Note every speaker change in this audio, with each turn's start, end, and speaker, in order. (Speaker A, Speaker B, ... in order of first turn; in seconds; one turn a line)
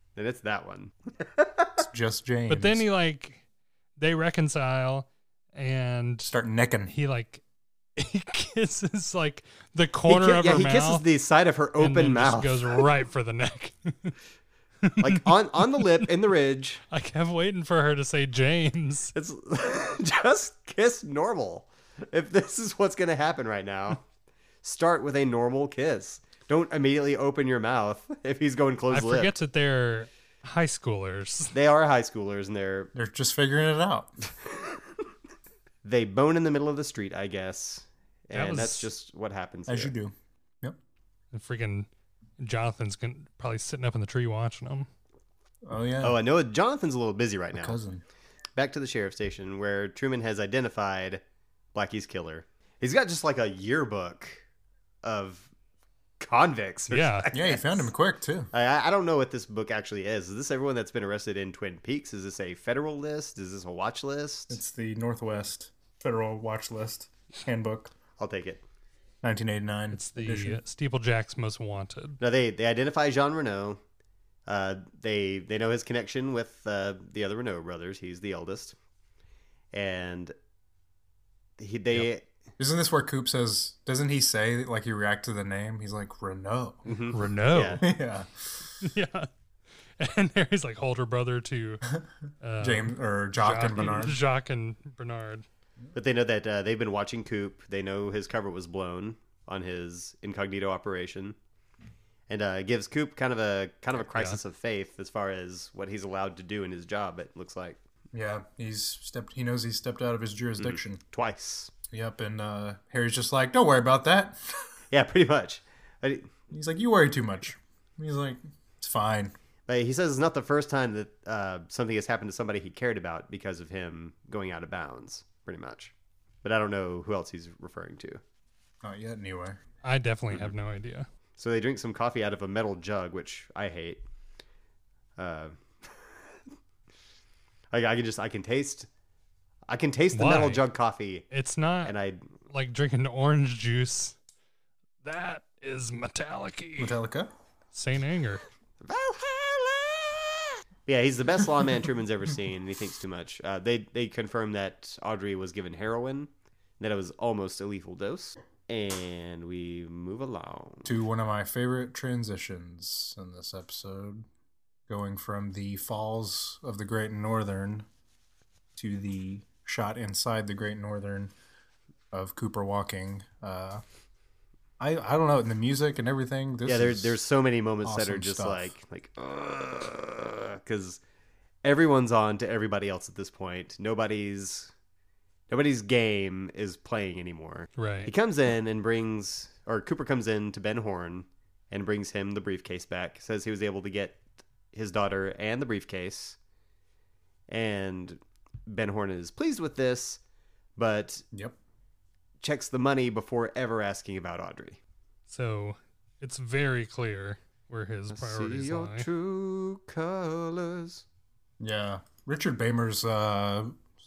Speaker A: 0.2-1.8
Speaker B: 1.8-2.9
Speaker C: 2.5-3.4
Speaker C: 4.0-6.3
Speaker B: 6.3-6.9
Speaker C: 6.9-7.4
Speaker C: 8.0-11.1
Speaker A: 10.1-12.9
Speaker C: 11.8-14.2
Speaker C: 14.8-16.1
Speaker A: 15.0-16.8
Speaker C: 16.9-19.1
Speaker A: 19.1-24.0
Speaker A: 24.6-29.3
Speaker C: 28.9-31.6
Speaker A: 31.5-32.9
Speaker B: 32.9-34.1
Speaker A: 35.9-39.9
Speaker C: 38.3-38.9
Speaker B: 39.7-40.8
Speaker C: 41.3-41.9
Speaker C: 42.4-44.9
Speaker B: 45.6-46.2
Speaker A: 46.0-47.8
Speaker B: 47.5-48.0
Speaker A: 48.6-51.2
Speaker A: 51.7-54.4
Speaker A: 55.0-55.5
Speaker A: 56.2-57.9
Speaker C: 56.9-57.3
Speaker B: 57.3-58.5
Speaker A: 58.5-64.6
Speaker B: 64.5-67.9
Speaker A: 68.2-68.6
Speaker B: 69.2-70.6
Speaker C: 69.9-72.2
Speaker A: 72.2-73.8
Speaker A: 74.5-78.8
Speaker A: 79.7-80.3
Speaker A: 81.6-82.2
Speaker B: 82.6-86.8
Speaker A: 86.9-87.8
Speaker C: 87.1-87.9
Speaker B: 87.8-88.6
Speaker C: 88.8-89.3
Speaker C: 90.0-91.8
Speaker C: 92.4-95.5
Speaker B: 92.6-94.2
Speaker A: 96.0-101.4
Speaker A: 102.3-107.8
Speaker C: 104.0-104.4
Speaker B: 108.1-111.0
Speaker A: 110.6-111.7
Speaker B: 111.9-114.4
Speaker A: 114.9-116.3
Speaker B: 116.5-119.3
Speaker A: 119.7-125.9
Speaker A: 126.4-128.2
Speaker B: 128.8-129.6
Speaker C: 129.8-131.1
Speaker A: 131.4-134.0
Speaker A: 135.2-135.6
Speaker A: 137.7-138.9
Speaker A: 139.7-141.2
Speaker C: 140.1-140.7
Speaker C: 141.3-141.9
Speaker A: 141.8-142.2
Speaker C: 142.5-144.2
Speaker C: 145.0-147.0
Speaker B: 146.8-147.3
Speaker C: 147.7-148.4
Speaker A: 148.8-156.3
Speaker A: 156.8-160.9
Speaker B: 160.8-164.3
Speaker B: 164.9-167.9
Speaker B: 168.8-171.3
Speaker B: 172.1-173.8
Speaker B: 174.8-177.2
Speaker A: 176.7-181.0
Speaker B: 177.8-178.7
Speaker A: 181.6-184.7
Speaker A: 185.5-194.2
Speaker C: 187.8-188.1
Speaker A: 194.7-196.4
Speaker A: 197.5-200.2
Speaker A: 200.8-201.2
Speaker A: 202.4-204.8
Speaker C: 205.3-209.1
Speaker A: 208.1-211.0
Speaker B: 211.6-213.8